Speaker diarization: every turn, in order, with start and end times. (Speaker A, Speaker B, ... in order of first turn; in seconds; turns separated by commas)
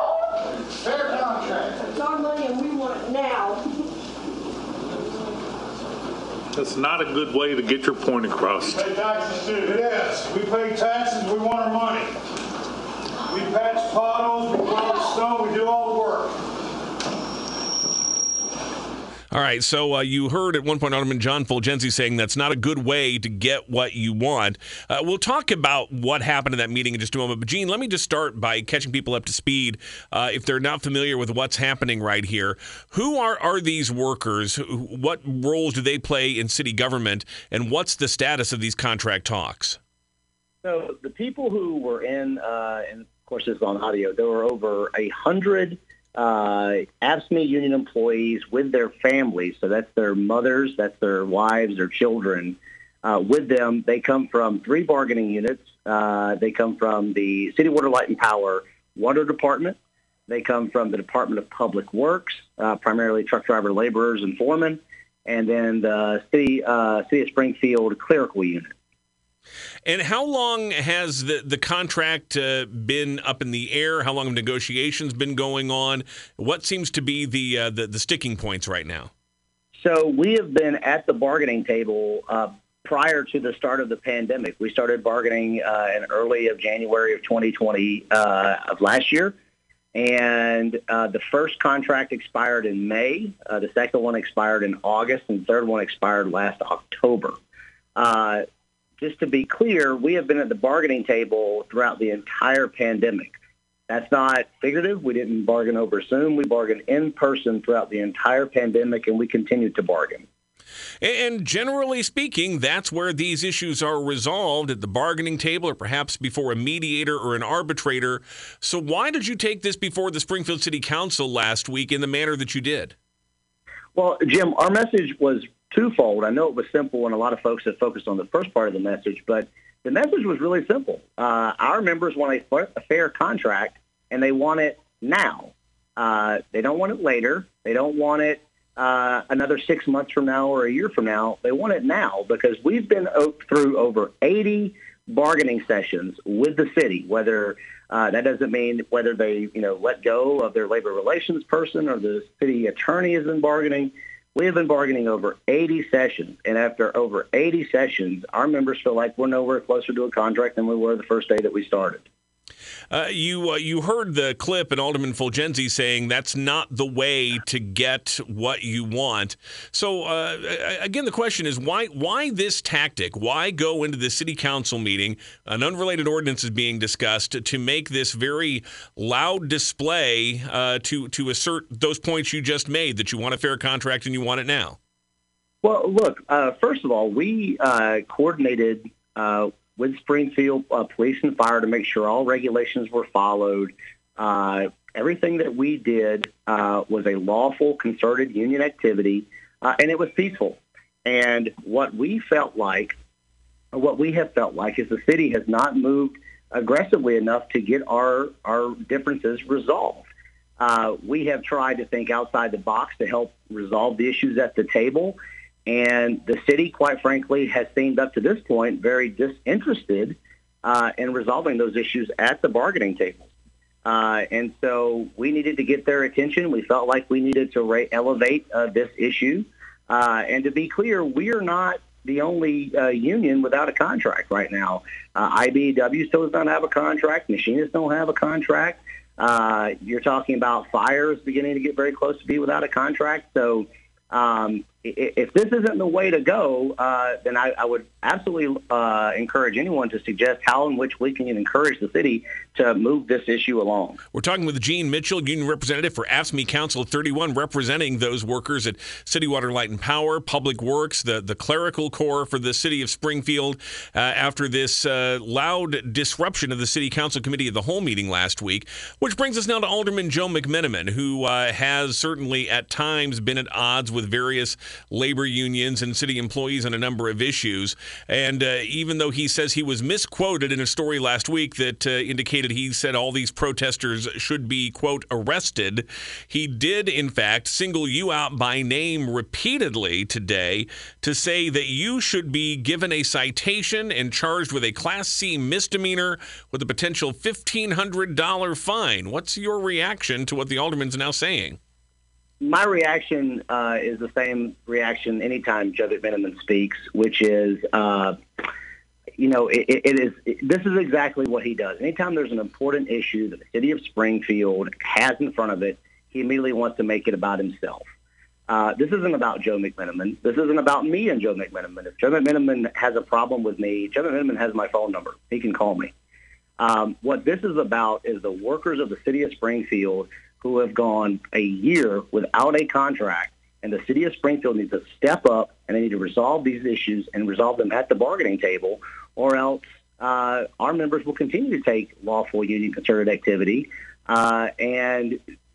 Speaker A: 0.8-1.7, Speaker B: 1.5-3.6, Speaker C: 6.5-8.9, Speaker A: 8.8-12.2, Speaker A: 13.3-16.4, Speaker D: 19.3-39.8, Speaker E: 40.6-59.8, Speaker E: 60.3-68.8, Speaker D: 69.9-79.1, Speaker E: 79.8-89.3, Speaker E: 90.0-97.4, Speaker E: 98.0-98.4, Speaker E: 99.0-103.3, Speaker E: 103.9-110.3, Speaker D: 111.0-123.0, Speaker E: 124.0-162.1, Speaker D: 162.9-184.8, Speaker E: 185.6-203.0, Speaker E: 203.7-210.1, Speaker E: 210.6-223.3, Speaker E: 223.9-254.0, Speaker D: 254.1-301.6, Speaker E: 302.4-308.2, Speaker E: 309.2-317.9, Speaker E: 318.5-325.9, Speaker E: 326.6-345.2